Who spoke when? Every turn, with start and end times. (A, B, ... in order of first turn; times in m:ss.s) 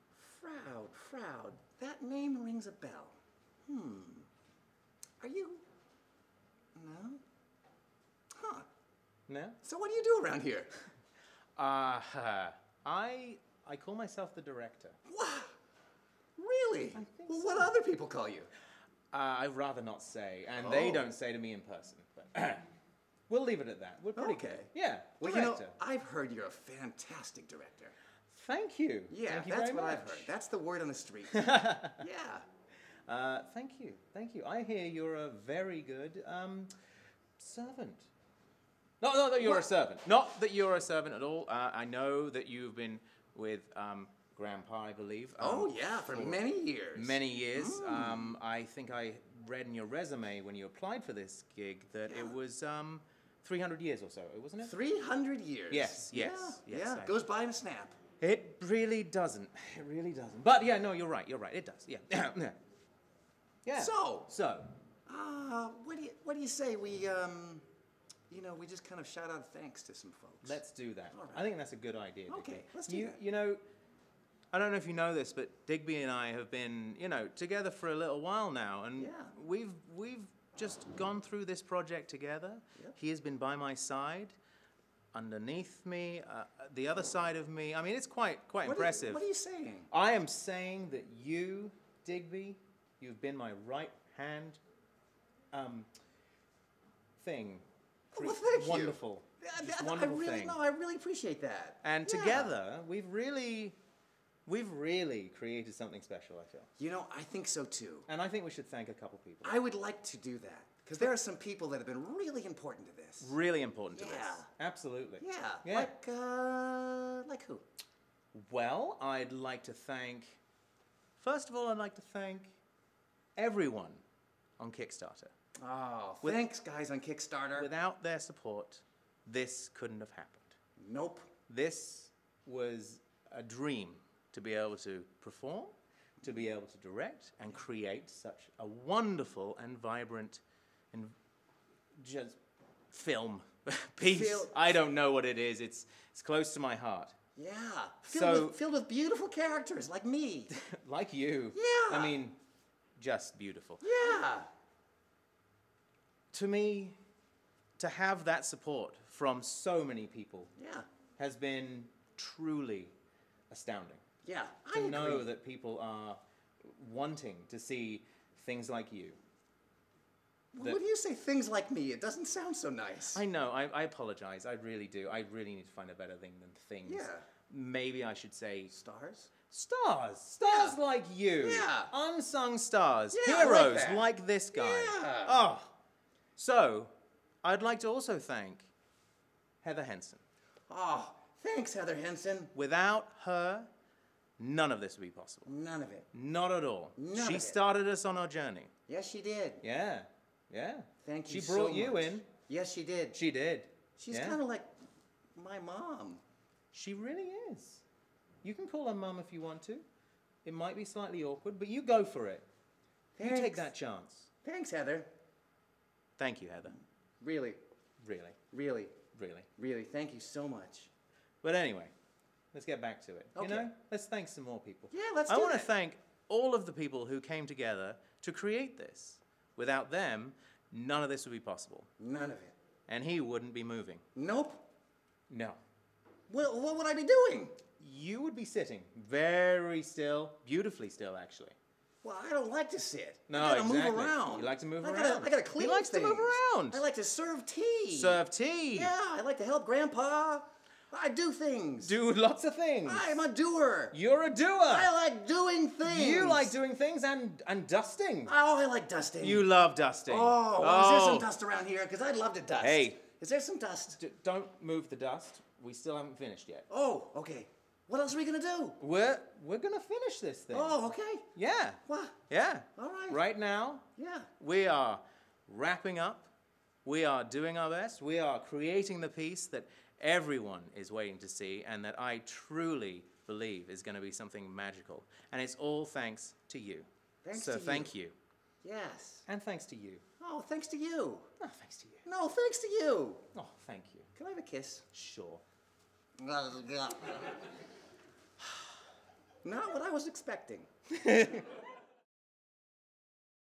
0:00.1-0:03.1 A
0:03.6-0:04.3 A
0:05.2-0:05.6 A
0:06.7-0:07.2 A
0:08.3-0:08.6 A
0:09.3-0:09.6 B
0:09.6-0:10.8 A
0:11.6-0:15.0 B
0:15.1-0:15.5 A
0:16.4-0:18.5 A
0:16.9-0:17.7 B
0:19.1-0:22.6 B
0:20.6-0:21.1 A
0:23.3-0:25.7 B
0:24.2-0:27.9 A
0:28.3-0:30.3 B
0:29.1-0:32.4 A
0:31.3-0:32.0 B
0:33.1-0:36.7 B
0:37.4-0:38.1 B
0:39.0-0:46.4 B
0:45.4-0:48.3 A
0:46.9-0:54.7 B
0:52.1-0:52.3 A
0:54.6-0:58.0 A
0:55.7-0:57.1 B
0:58.2-1:02.6 B
1:03.6-1:04.7 B
1:03.7-1:04.3 A
1:05.1-1:07.6 A
1:08.3-1:10.6 A
1:10.4-1:13.6 B
1:11.1-1:11.4 A
1:12.3-1:13.2 A
1:14.5-1:24.3 B
1:19.0-1:19.3 A
1:25.1-1:29.2 B
1:28.6-1:29.9 A
1:29.9-1:34.6 B
1:35.5-1:35.9 B
1:37.2-1:40.6 B
1:38.1-1:42.5 A
1:41.8-1:43.8 B
1:44.4-1:46.7 B
1:46.8-1:48.1 A
1:48.1-1:49.5 B
1:49.4-1:53.3 A
1:53.2-1:55.9 B
1:53.9-1:54.5 A
1:55.2-1:57.6 A
1:58.3-2:00.4 B
2:01.2-2:02.5 B
2:03.4-2:04.0 B
2:04.6-2:05.3 B
2:05.6-2:07.7 A
2:07.6-2:10.5 B
2:10.8-2:11.3 A
2:11.5-2:21.1 B
2:22.0-2:22.4 B
2:22.9-2:27.1 B
2:24.0-2:24.7 A
2:27.4-2:30.5 A
2:28.0-2:28.6 B
2:30.5-2:32.4 B
2:31.5-2:32.2 A
2:33.0-2:33.9 B
2:33.8-2:34.5 A
2:36.3-2:37.0 B
2:37.8-2:40.5 B
2:40.6-2:40.9 A
2:41.2-2:42.9 B
2:43.5-2:44.0 B
2:44.2-2:45.3 A
2:44.7-2:49.2 B
2:50.5-2:53.2 A
2:53.1-2:58.7 B
2:56.8-2:57.2 A
2:58.7-2:59.3 A
2:59.5-3:05.8 B
3:00.5-3:00.8 A
3:01.4-3:01.9 A
3:03.1-3:05.4 A
3:06.4-3:06.9 B
3:07.4-3:08.7 B
3:09.6-3:10.2 B
3:10.7-3:12.5 A
3:12.5-3:13.7 B
3:14.4-3:15.5 B
3:15.4-3:16.1 A
3:16.1-3:18.7 B
3:17.0-3:17.6 A
3:18.9-3:19.6 A
3:19.6-3:22.3 B
3:21.0-3:23.2 A
3:23.1-3:24.4 B
3:24.0-3:24.7 A
3:25.4-3:26.2 A
3:26.7-3:27.8 B
3:28.4-3:29.8 B
3:30.4-3:32.4 B
3:33.2-3:33.7 A
3:33.2-3:34.3 B
3:34.4-3:35.1 A
3:36.2-3:36.8 B
3:37.2-3:37.6 A
3:38.0-3:38.4 B
3:38.5-3:39.0 A
3:39.1-3:39.5 B
3:39.6-3:40.9 A
3:41.4-3:41.9 B
3:42.5-3:51.9 B
3:43.4-3:43.7 A
3:44.9-3:45.7 A
3:52.0-3:52.5 A
3:52.9-3:54.0 B
3:54.1-3:54.6 A
3:55.3-3:55.6 B
3:56.3-3:57.6 A
3:57.8-4:01.5 B
4:02.0-4:08.2 A
4:03.3-4:06.8 B
4:07.9-4:08.9 B
4:08.7-4:11.9 A
4:11.8-4:13.2 B
4:12.8-4:14.0 A
4:13.9-4:14.9 B
4:14.6-4:16.5 A
4:15.8-4:18.3 B
4:18.2-4:19.5 A
4:19.2-4:21.3 B
4:20.1-4:24.0 A
4:22.6-4:23.0 B
4:23.9-4:26.7 B
4:26.7-4:28.8 A
4:28.8-4:30.8 B
4:30.5-4:31.3 A
4:31.3-4:33.8 B
4:31.8-4:32.2 A
4:32.8-4:33.2 A
4:34.0-4:34.3 A
4:34.4-4:36.3 B
4:36.8-4:48.1 B
4:47.2-4:47.9 A
4:48.6-4:49.2 A
4:49.3-4:50.0 B
4:50.2-4:51.3 A
4:51.4-4:52.0 B
4:52.0-4:53.2 A
4:53.3-4:54.1 B
4:54.2-4:54.8 A
4:54.9-4:55.4 B
4:56.2-4:57.4 A
4:59.4-5:00.7 A
5:01.0-5:01.4 B